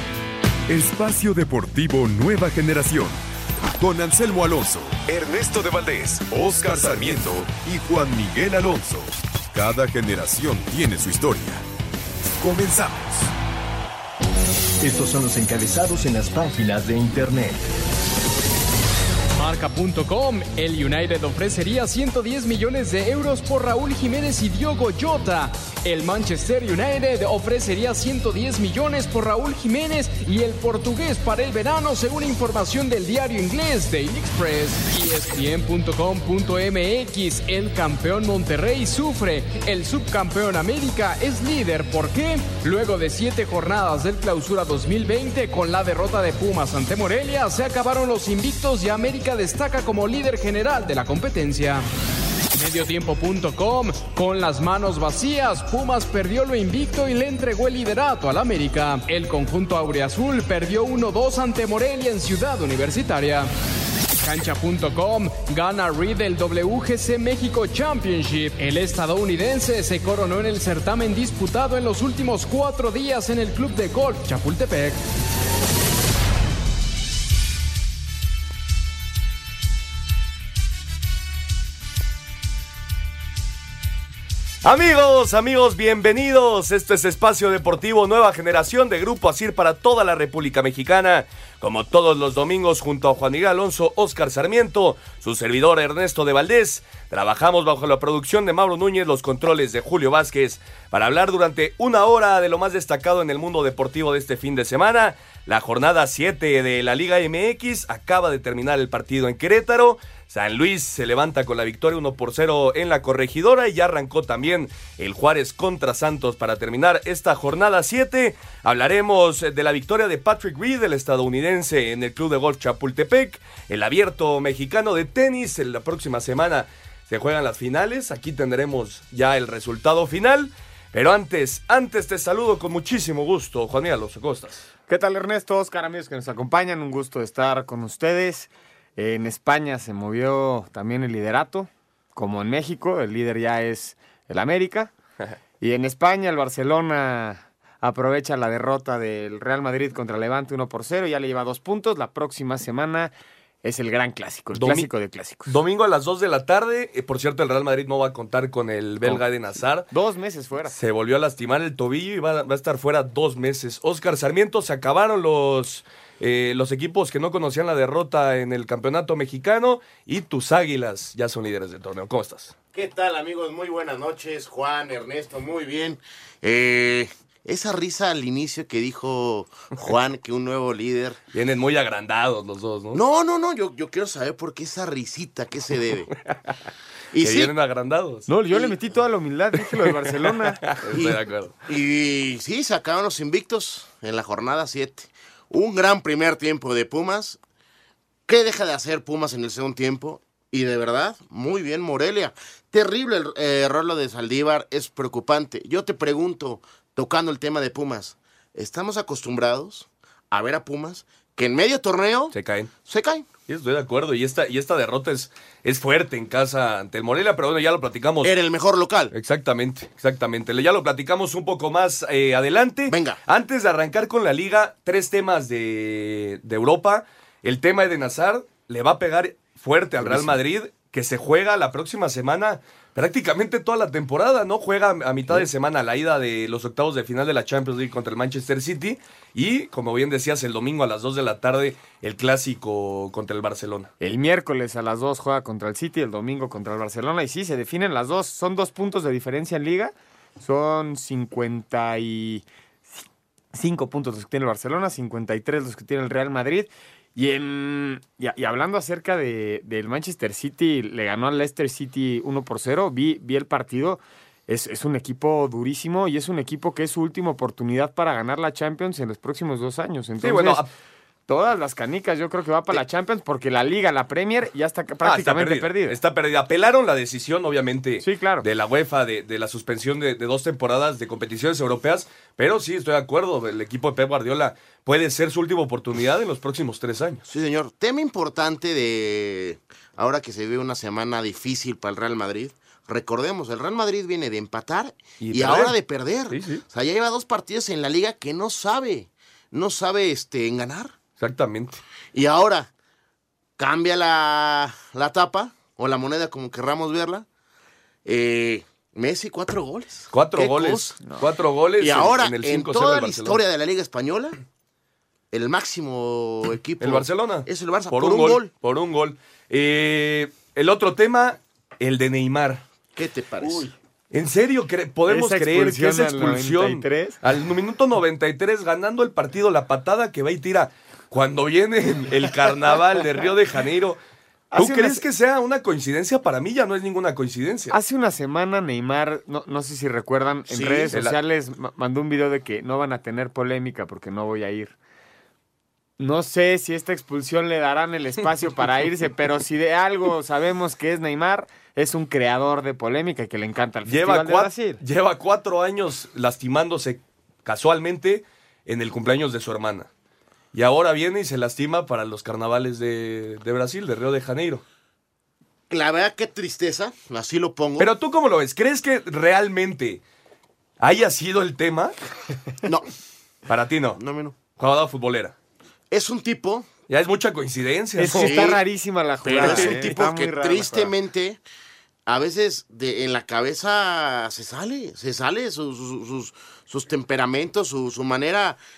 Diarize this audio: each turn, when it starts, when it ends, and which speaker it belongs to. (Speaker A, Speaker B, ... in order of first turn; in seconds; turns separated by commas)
Speaker A: 0.7-11.6, Speaker A: 12.4-13.3, Speaker B: 14.8-17.6, Speaker C: 19.4-51.9, Speaker C: 52.5-63.5, Speaker C: 64.2-75.0, Speaker D: 84.6-134.7, Speaker E: 134.9-144.9, Speaker E: 145.6-153.1, Speaker E: 153.6-155.5, Speaker D: 154.5-154.9, Speaker D: 155.4-159.9, Speaker E: 159.0-160.7, Speaker D: 160.7-172.5, Speaker F: 172.7-181.2, Speaker D: 181.3-183.0, Speaker F: 182.9-186.1, Speaker F: 187.1-187.5, Speaker D: 187.2-188.3, Speaker E: 188.3-190.6, Speaker D: 190.7-191.5, Speaker F: 190.9-197.4, Speaker F: 198.3-213.3, Speaker D: 212.3-212.7, Speaker D: 213.5-218.3, Speaker F: 218.2-219.1, Speaker D: 219.1-243.9, Speaker F: 222.9-223.2, Speaker E: 230.0-230.3, Speaker E: 244.0-252.4, Speaker E: 253.5-270.6, Speaker D: 270.2-270.7, Speaker E: 271.3-276.0, Speaker D: 275.0-287.2, Speaker E: 278.0-278.4, Speaker F: 287.3-300.9, Speaker D: 295.2-295.7, Speaker D: 296.3-296.6, Speaker D: 301.2-301.8, Speaker F: 302.1-302.7, Speaker F: 303.6-307.2, Speaker F: 308.0-310.9, Speaker D: 310.1-313.4, Speaker F: 311.8-314.4, Speaker F: 315.3-318.5, Speaker D: 316.8-322.6, Speaker F: 322.9-323.7, Speaker D: 324.1-334.0, Speaker E: 325.1-327.2, Speaker E: 334.5-335.0, Speaker D: 334.5-337.7, Speaker E: 337.7-344.7, Speaker F: 340.5-341.0, Speaker E: 346.0-354.8, Speaker D: 353.9-359.9, Speaker D: 360.5-364.6, Speaker F: 365.7-367.9, Speaker D: 367.8-370.0, Speaker D: 370.8-371.9, Speaker D: 373.5-374.0, Speaker F: 373.9-374.4, Speaker D: 374.6-375.3, Speaker F: 375.9-376.7, Speaker D: 376.9-378.5, Speaker E: 378.0-380.9, Speaker F: 378.1-378.6, Speaker F: 379.2-381.4, Speaker D: 379.3-379.9, Speaker F: 382.1-388.6